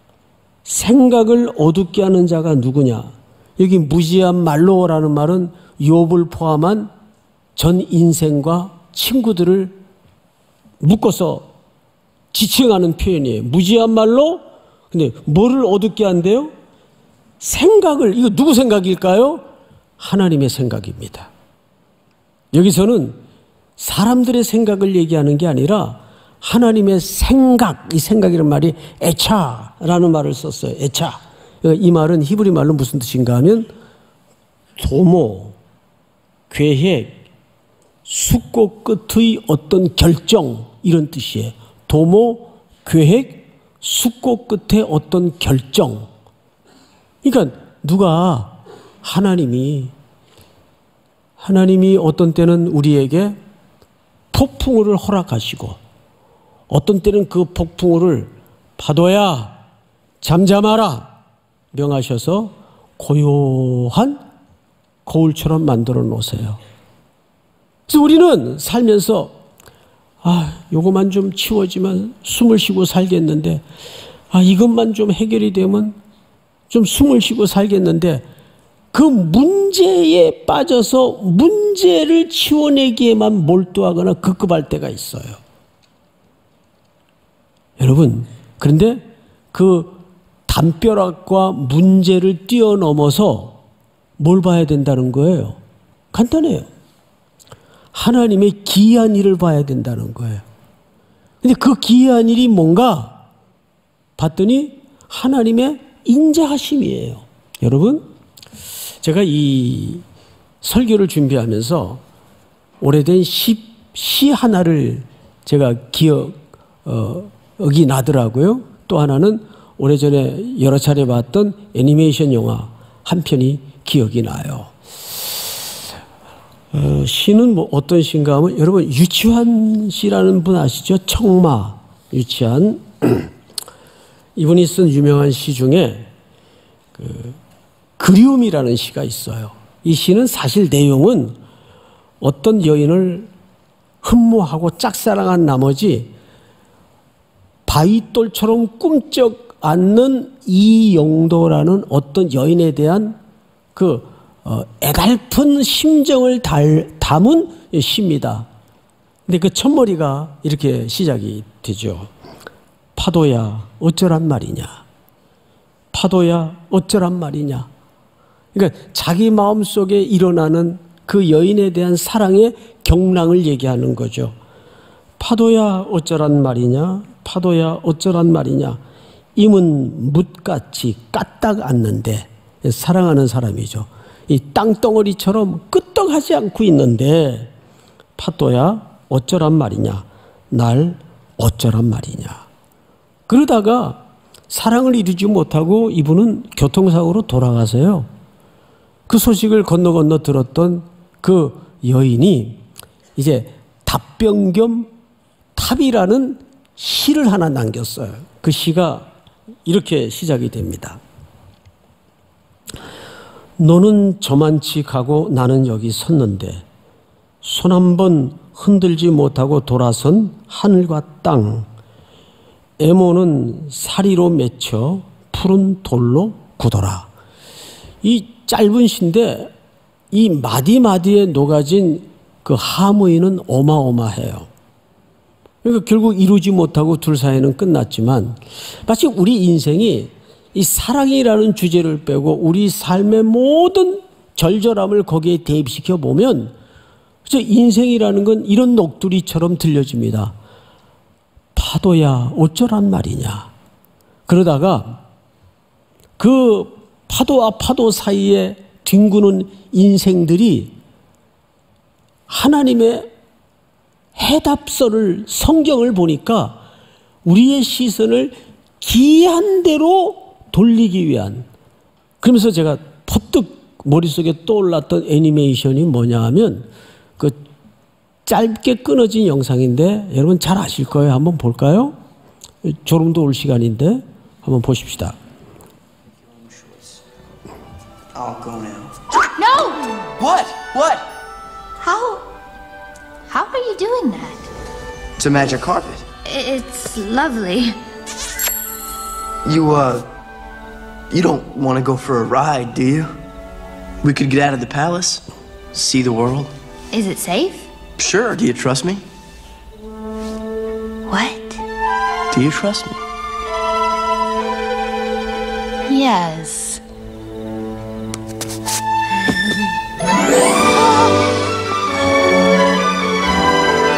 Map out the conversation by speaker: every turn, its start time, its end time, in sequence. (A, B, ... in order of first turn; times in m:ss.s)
0:00.6-0:06.9 A
0:07.6-0:09.8 A
0:10.8-0:11.5 A
0:12.3-0:16.5 A
0:17.4-0:19.4 A
0:20.0-0:21.3 A
0:22.5-0:23.2 A
0:23.8-0:33.7 A
0:34.8-0:35.6 A
0:36.5-0:37.2 A
0:38.0-0:46.1 A
0:47.2-0:49.9 A
0:51.4-0:53.4 A
0:54.3-0:55.8 A
0:56.7-0:59.6 A
1:00.2-1:01.1 A
1:01.7-1:04.2 A
1:05.0-1:06.6 A
1:07.9-1:09.3 A
1:10.2-1:13.6 A
1:14.3-1:16.0 A
1:16.7-1:18.2 A
1:18.9-1:25.4 A
1:27.8-1:33.6 A
1:34.2-1:35.6 A
1:36.1-1:36.7 A
1:37.9-1:40.4 A
1:41.4-1:43.2 A
1:44.2-1:48.0 A
1:49.0-1:50.0 A
1:50.6-1:52.0 A
1:52.8-2:04.7 A
2:06.7-2:13.3 A
2:14.4-2:16.1 A
2:17.0-2:17.4 A
2:18.0-2:21.4 A
2:22.2-2:23.3 A
2:24.0-2:26.1 A
2:27.7-2:33.2 A
2:33.7-2:38.5 A
2:39.3-2:42.1 A
2:43.0-2:44.8 A
2:45.9-2:47.7 A
2:48.5-2:54.3 A
2:55.2-2:58.8 A
2:59.4-3:07.5 A
3:08.2-3:12.4 A
3:13.3-3:18.1 A
3:19.1-3:22.6 A
3:23.2-3:24.9 A
3:25.6-3:29.1 A
3:29.6-3:31.0 A
3:33.6-3:36.6 A
3:37.4-3:41.7 A
3:42.8-3:47.1 A
3:48.0-3:49.5 A
3:50.1-3:54.5 A
3:55.6-4:06.5 A
4:07.2-4:10.3 A
4:11.5-4:13.5 A
4:14.3-4:15.0 A
4:16.2-4:20.7 A
4:22.3-4:23.1 A
4:24.2-4:26.6 A
4:27.2-4:31.5 A
4:32.2-4:37.4 A
4:38.2-4:42.0 A
4:42.6-4:45.2 A
4:46.2-4:47.0 B
4:48.1-4:49.0 B
4:49.4-4:49.9 C
4:50.2-4:51.1 B
4:51.8-4:52.2 C
4:53.3-4:54.5 C
4:55.2-4:56.0 B
4:56.2-4:57.8 C
4:59.4-5:00.1 B
5:01.1-5:03.1 B
5:04.0-5:06.5 B
5:06.9-5:07.7 C
5:08.0-5:09.0 B
5:11.1-5:11.6 C
5:12.3-5:13.0 B
5:15.9-5:16.8 C
5:19.2-5:19.6 C